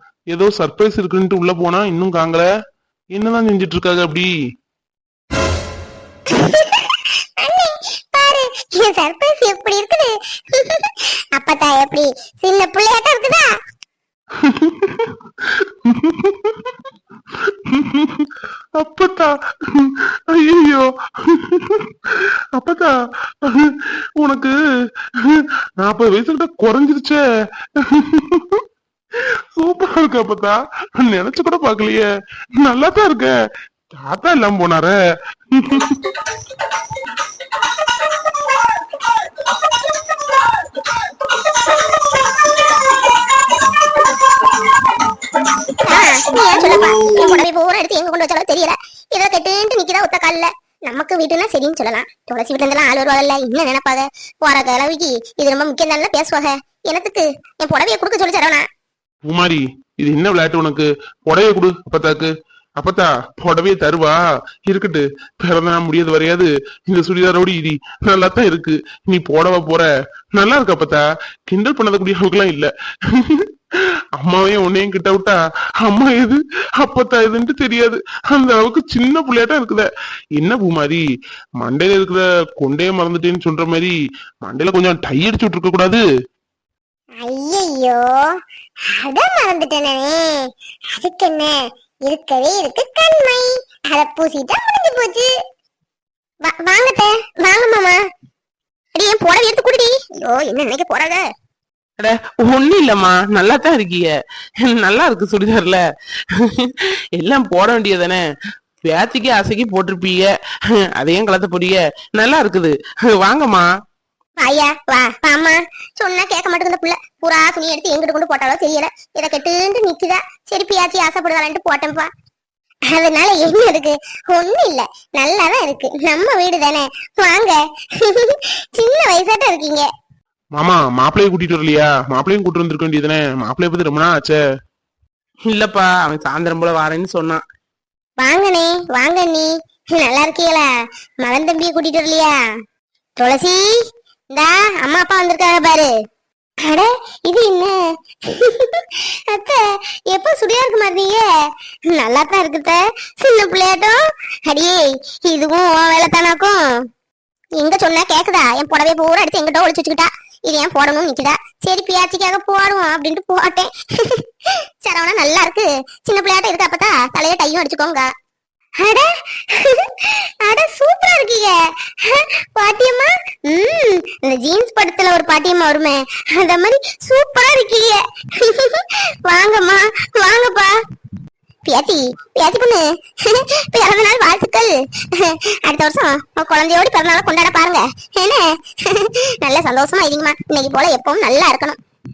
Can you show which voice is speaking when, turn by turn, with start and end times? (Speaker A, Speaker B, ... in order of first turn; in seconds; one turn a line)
Speaker A: 0.3-2.5
Speaker A: 3.1-4.3
Speaker B: 6.3-13.5
Speaker A: 14.4-16.8
Speaker A: 17.7-24.5
Speaker A: 25.2-27.2
Speaker A: 27.9-28.6
Speaker A: 29.6-32.1
Speaker A: 32.6-33.3
Speaker A: 34.0-35.0
Speaker A: 35.5-36.2
Speaker B: 45.8-58.6
Speaker A: 59.2-73.5
Speaker A: 74.2-79.9
Speaker A: 80.4-81.0
Speaker A: 81.6-86.0
Speaker B: 87.2-88.2
Speaker B: 89.0-95.3
Speaker B: 96.4-98.0
Speaker B: 99.0-101.2
Speaker C: 102.0-105.8
Speaker C: 106.3-108.2
Speaker C: 108.8-110.3
Speaker C: 111.0-113.7
Speaker B: 114.4-122.1
Speaker B: 122.9-129.9
Speaker A: 130.6-134.4
Speaker C: 135.5-137.4
Speaker B: 138.2-140.7
Speaker B: 141.2-142.3
Speaker B: 143.2-143.7
Speaker B: 144.3-145.9
Speaker B: 146.7-147.8
Speaker B: 148.3-151.2
Speaker B: 151.9-156.6
Speaker B: 157.6-164.3
Speaker B: 164.8-168.1
Speaker B: 168.8-180.7
Speaker B: 181.7-191.8